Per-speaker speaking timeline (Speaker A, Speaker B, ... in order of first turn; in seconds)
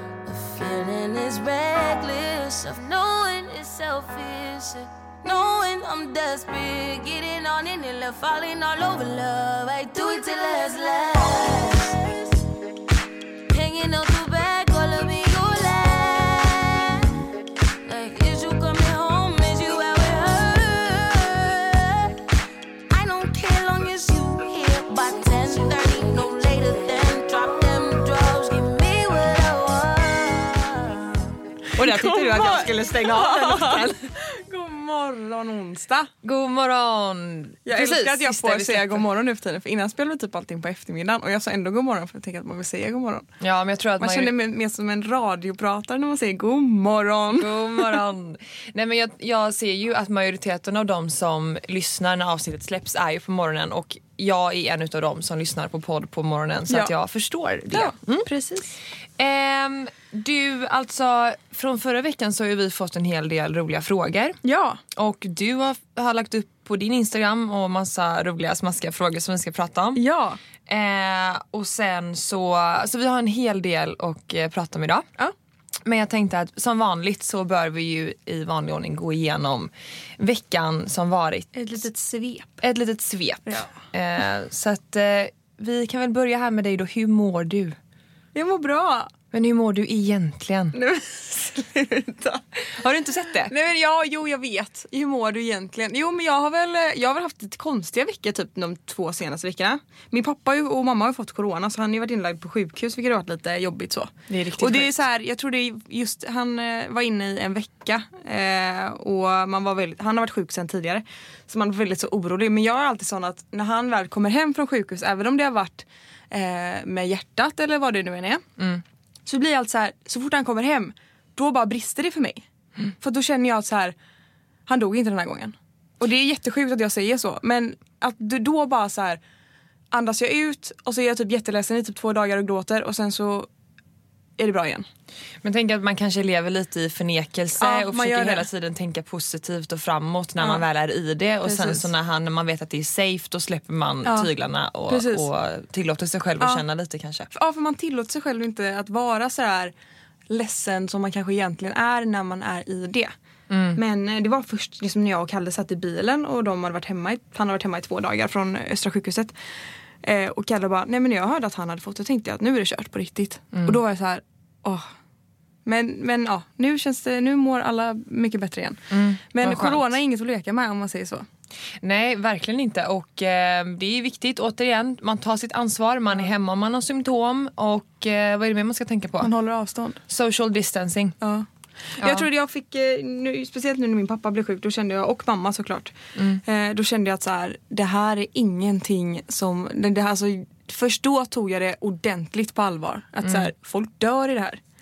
Speaker A: 0.2-12.4, 13.5-17.1, 17.8-22.2, 22.9-31.3
Speaker B: 31.8-34.0, 36.2-39.0, 43.4-44.3, 47.3-58.3, 59.2-64.4, 64.9-70.0, 70.7-75.0, 75.8-81.7, 82.6-87.8, 89.3-90.8, 92.7-93.5, 104.3-104.9, 135.4-147.3, 153.5-153.8, 168.9-169.9, 171.8-179.3, 180.1-181.2, 182.0-182.2, 186.2-186.4, 193.2-193.5
Speaker C: 31.8-36.1, 37.6-43.3, 44.0-48.0, 57.7-58.7, 64.4-64.8, 69.9-70.4, 81.5-82.6, 88.3-89.1, 90.7-92.4, 93.5-118.4, 119.2-122.4, 123.0-123.9, 124.7-129.2, 129.9-133.5, 134.4-134.8, 137.6-138.5, 140.4-140.6, 141.4-141.9, 144.0-144.3, 144.9-145.2, 147.3-149.7, 150.3-153.1, 153.7-159.3, 160.0-164.9, 165.6-171.2, 179.2-180.0, 181.2-181.4, 182.0-194.6